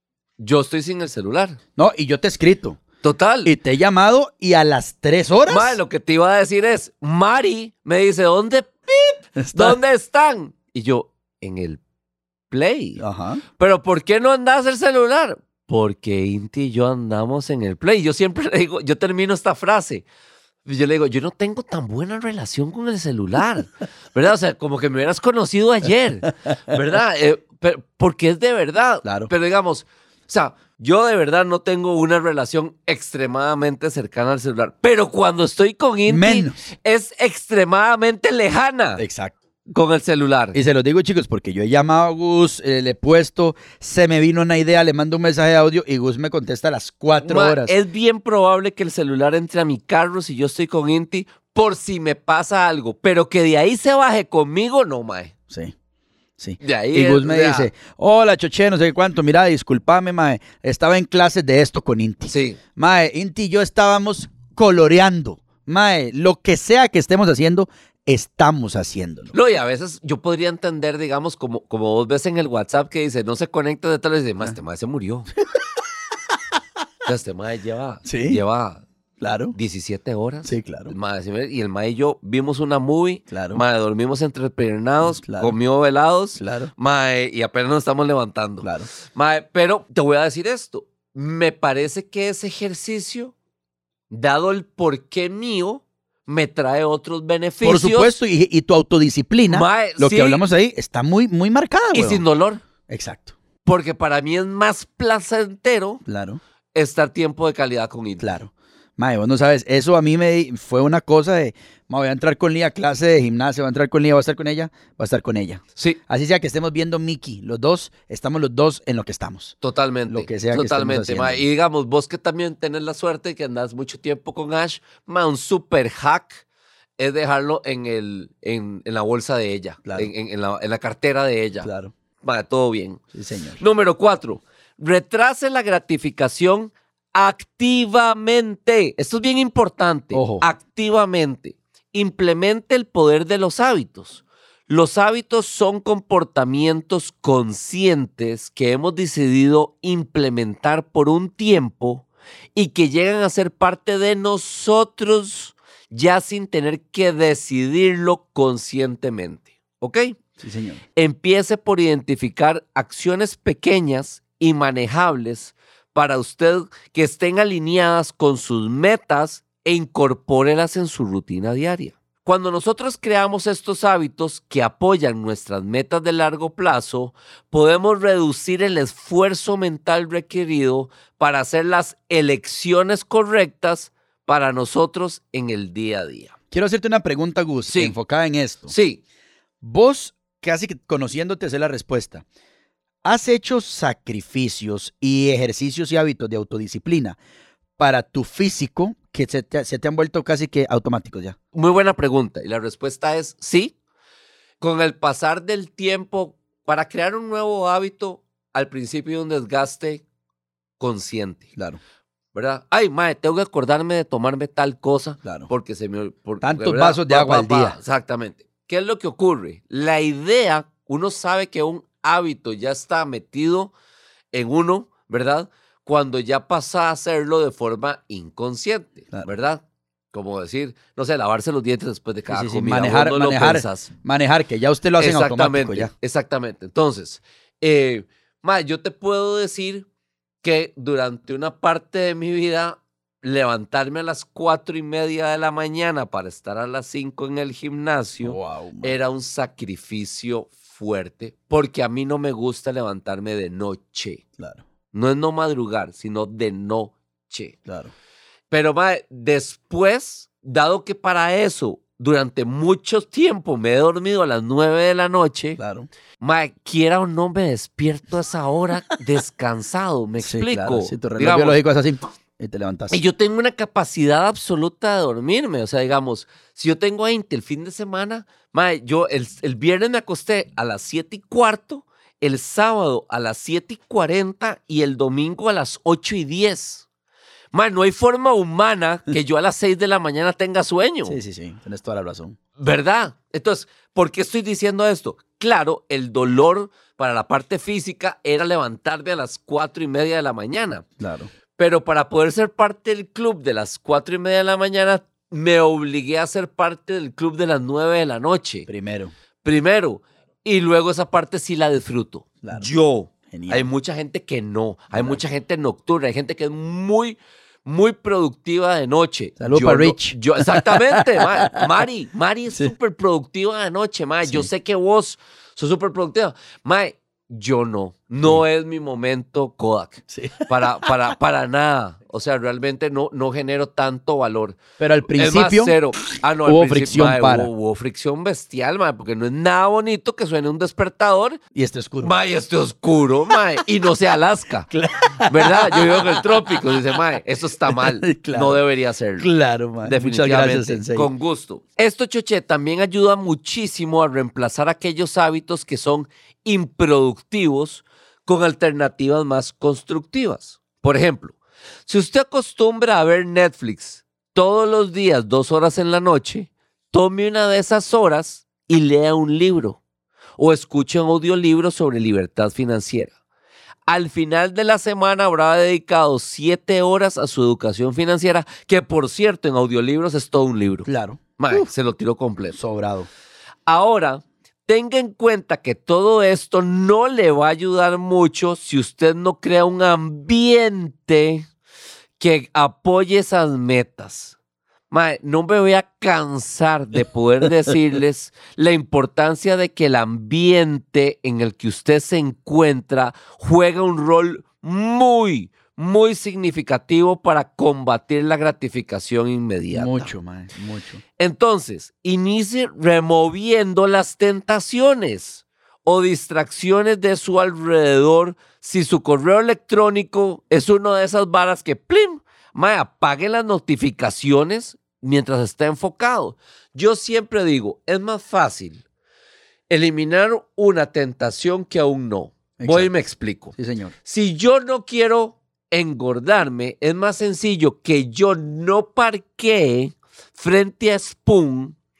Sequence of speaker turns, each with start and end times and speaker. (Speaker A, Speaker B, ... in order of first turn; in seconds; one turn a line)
Speaker A: 0.4-1.6
Speaker B: 1.8-2.8
Speaker A: 3.0-3.5
Speaker B: 3.4-5.8
Speaker A: 5.5-11.8
Speaker B: 9.4-9.8
Speaker A: 12.5-13.0
Speaker B: 13.0-13.4
Speaker A: 13.6-20.0
Speaker A: 20.6-39.0
Speaker B: 29.0-29.3
Speaker B: 36.0-36.6
Speaker B: 39.0-39.3
Speaker A: 39.7-40.6
Speaker B: 40.5-47.8
Speaker A: 47.2-55.3
Speaker B: 56.4-69.3
Speaker A: 56.6-57.7
Speaker A: 62.3-62.6
Speaker A: 69.3-75.3
Speaker A: 77.0-78.8
Speaker B: 78.0-78.4
Speaker B: 79.2-79.5
Speaker A: 79.5-93.3
Speaker B: 80.4-80.9
Speaker B: 83.3-83.6
Speaker B: 85.0-85.5
Speaker B: 86.4-86.7
Speaker B: 88.6-88.9
Speaker A: 94.1-98.1
Speaker B: 97.6-102.2
Speaker A: 99.5-100.4
Speaker A: 101.9-102.6
Speaker B: 102.9-103.3
Speaker A: 103.6-106.0
Speaker B: 106.0-106.4
Speaker A: 106.7-108.3
Speaker B: 108.2-119.5
Speaker A: 119.6-126.4
Speaker B: 120.1-121.4
Speaker A: 127.0-131.7
Speaker B: 129.8-130.1
Speaker B: 131.6-131.9
Speaker A: 132.2-133.0
Speaker B: 133.1-133.6
Speaker A: 133.6-160.2
Speaker B: 140.1-140.5
Speaker B: 160.4-160.8
Speaker A: 160.9-186.3
Speaker B: 186.5-188.7
Speaker A: 187.7-188.0
Speaker A: 188.7-189.0
Speaker B: 189.6-192.2
Speaker B: 193.0-197.2
Speaker B: 197.8-201.4
Speaker A: 201.5-203.7
Speaker A: 204.6-210.0
Speaker A: 210.8-211.5
Speaker A: 212.3-223.7
Speaker B: 215.2-215.5
Speaker B: 216.4-217.8
Speaker A: 224.3-233.9
Speaker B: 232.3-235.9
Speaker A: 235.0-239.8
Speaker A: 240.4-254.2
Speaker B: 248.2-249.0
Speaker A: 254.9-257.5
Speaker B: 257.6-257.9
Speaker A: 258.5-265.6
Speaker B: 265.6-265.9
Speaker A: 266.2-271.6
Speaker B: 270.2-273.0
Speaker A: 272.9-286.8
Speaker A: 287.5-291.2
Speaker B: 291.1-292.4
Speaker A: 292.6-300.8
Speaker B: 301.0-301.3
Speaker A: 301.6-308.7
Speaker B: 308.7-309.1
Speaker A: 309.4-341.4
Speaker B: 312.4-312.7
Speaker B: 313.3-313.7
Speaker B: 314.9-315.2
Speaker B: 319.4-321.6
Speaker B: 324.2-324.5
Speaker B: 330.1-330.9
Speaker B: 334.8-335.8
Speaker B: 336.4-337.5
Speaker B: 341.5-342.1
Speaker A: 342.0-344.7
Speaker B: 344.7-347.0
Speaker A: 345.3-361.3
Speaker B: 347.7-348.6
Speaker B: 349.2-351.1
Speaker A: 361.9-369.8
Speaker A: 370.4-373.1
Speaker A: 373.9-382.6
Speaker B: 380.9-381.7
Speaker B: 382.5-383.1
Speaker A: 383.7-391.5
Speaker A: 392.2-394.4
Speaker A: 394.9-410.1
Speaker B: 409.7-411.0
Speaker A: 411.2-428.8
Speaker A: 429.7-433.5
Speaker B: 432.6-433.9
Speaker A: 434.0-441.8